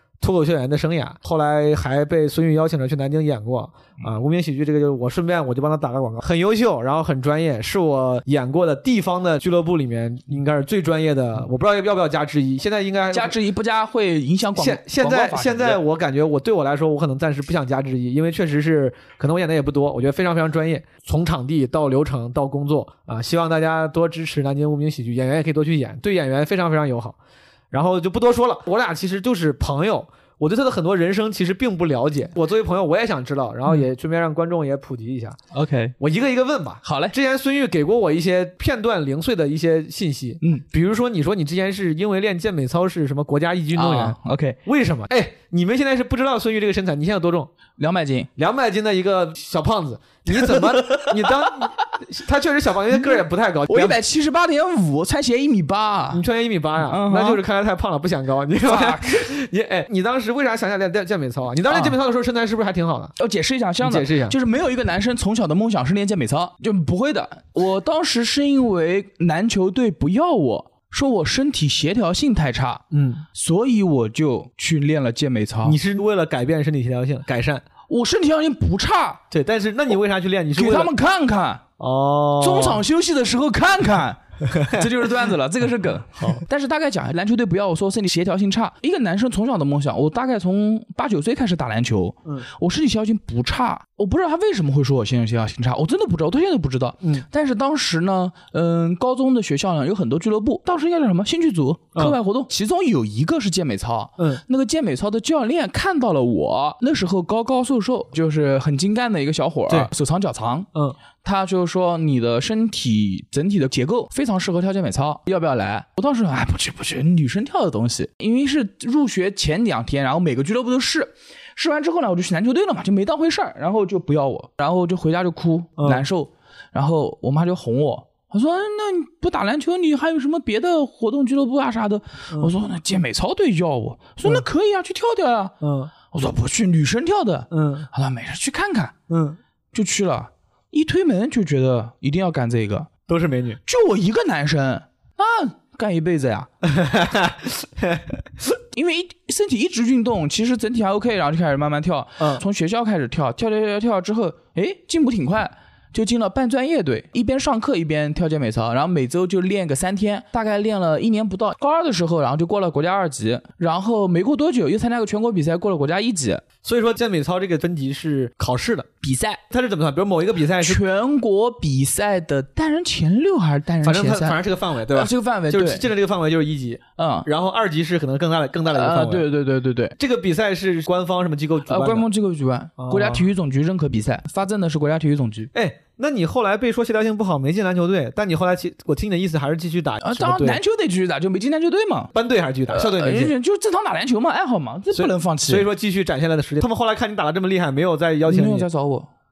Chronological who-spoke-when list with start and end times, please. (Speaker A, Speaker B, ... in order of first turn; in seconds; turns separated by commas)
Speaker A: 0.2-13.4, Speaker B: 13.1-15.8, Speaker A: 14.6-27.2, Speaker A: 27.7-35.4, Speaker B: 35.5-36.0, Speaker A: 36.0-47.5, Speaker B: 36.8-37.1, Speaker B: 43.7-44.6, Speaker B: 47.8-48.3, Speaker A: 48.4-54.0, Speaker B: 50.3-51.5, Speaker B: 53.7-56.2, Speaker A: 56.1-63.1, Speaker B: 56.8-57.4, Speaker B: 58.6-59.3, Speaker B: 61.7-62.0, Speaker B: 63.2-75.8, Speaker A: 63.8-64.4, Speaker A: 72.9-73.2, Speaker A: 75.6-77.7, Speaker B: 77.9-79.2, Speaker A: 79.3-80.9, Speaker B: 80.5-81.6, Speaker A: 81.8-82.8, Speaker B: 82.4-110.7, Speaker A: 84.5-84.8, Speaker A: 86.2-86.4, Speaker A: 104.2-104.4, Speaker B: 111.2-135.5, Speaker A: 125.8-126.1, Speaker A: 135.6-135.9, Speaker B: 136.1-138.9, Speaker A: 137.5-137.9, Speaker A: 139.1-139.4, Speaker B: 139.7-142.9, Speaker A: 143.1-143.6, Speaker B: 143.7-146.5, Speaker A: 146.6-148.5, Speaker B: 148.7-166.4, Speaker A: 166.6-168.9, Speaker B: 169.0-169.4, Speaker A: 169.5-170.8, Speaker B: 170.6-175.9, Speaker A: 173.8-179.3, Speaker B: 177.0-177.3, Speaker B: 178.7-180.0, Speaker A: 180.0-182.1, Speaker B: 181.7-185.5, Speaker A: 182.8-183.3, Speaker A: 185.5-190.6, Speaker B: 190.0-192.1, Speaker A: 192.1-193.3, Speaker B: 192.7-195.7, Speaker A: 194.9-198.7, Speaker B: 198.3-199.1